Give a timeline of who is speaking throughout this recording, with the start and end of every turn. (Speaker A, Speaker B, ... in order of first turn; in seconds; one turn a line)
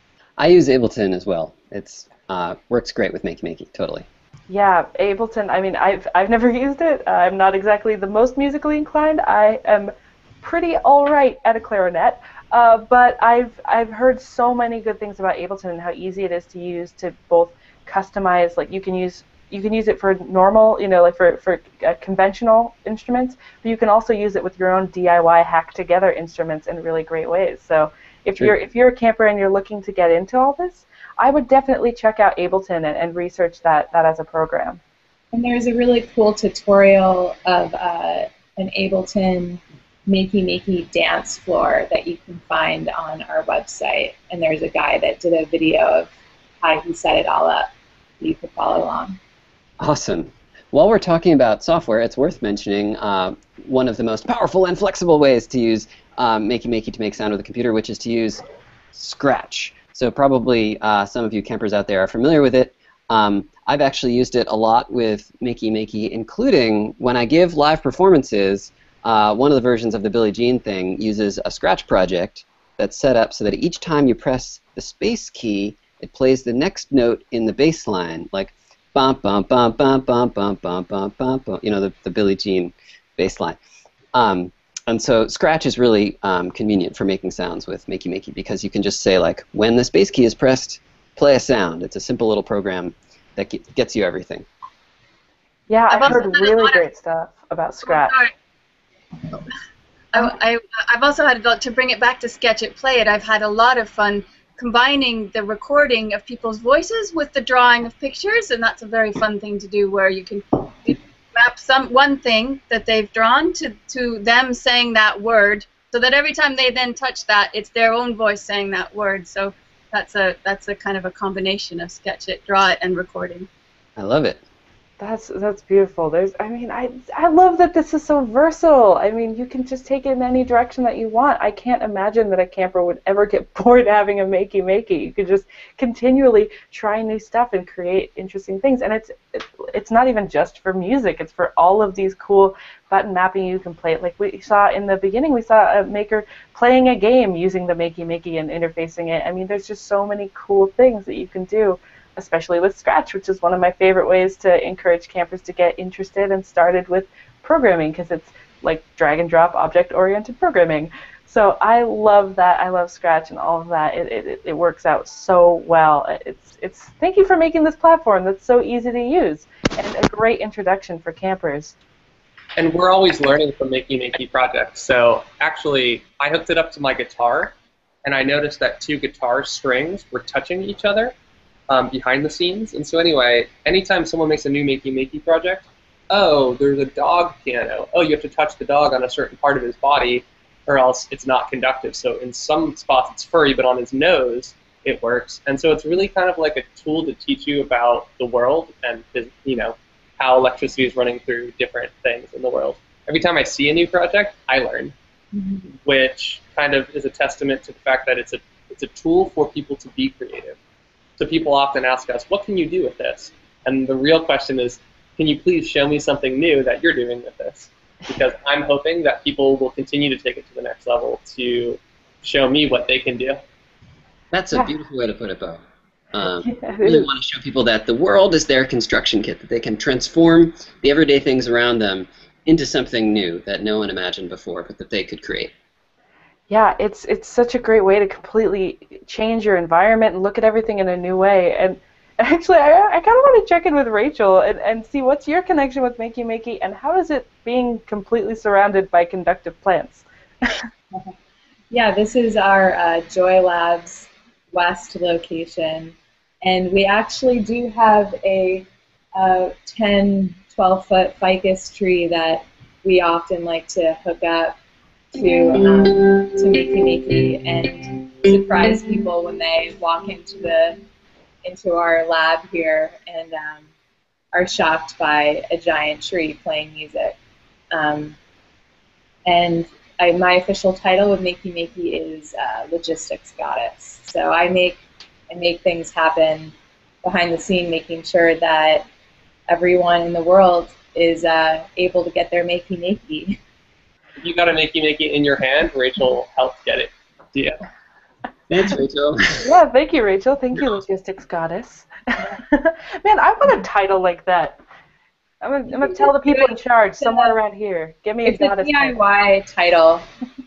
Speaker A: 0.4-4.1
Speaker B: 4.5-34.8
Speaker C: 35.3-47.7
Speaker C: 48.2-49.2
Speaker A: 49.8-83.6
Speaker A: 84.1-94.5
Speaker B: 95.7-98.2
Speaker D: 95.9-96.8
Speaker D: 97.9-98.3
Speaker D: 100.1-123.5
Speaker A: 124.0-124.4
Speaker B: 125.0-171.8
Speaker E: 172.6-181.2
Speaker E: 181.7-204.9
Speaker C: 205.3-205.7
Speaker E: 205.8-210.6
Speaker E: 211.2-223.4
Speaker A: 224.3-225.6
Speaker A: 226.1-235.5
Speaker B: 226.3-227.1
Speaker B: 236.5-250.6
Speaker C: 251.7-264.6
Speaker C: 265.1-270.8
Speaker C: 271.4-273.7
Speaker C: 274.3-277.2
Speaker C: 277.7-278.2
Speaker C: 279.2-288.9
Speaker C: 289.5-293.4
Speaker E: 294.2-297.6
Speaker A: 298.5-299.4
Speaker B: 299.4-304.6
Speaker B: 305.4-309.0
Speaker C: 305.8-307.4
Speaker C: 308.2-310.1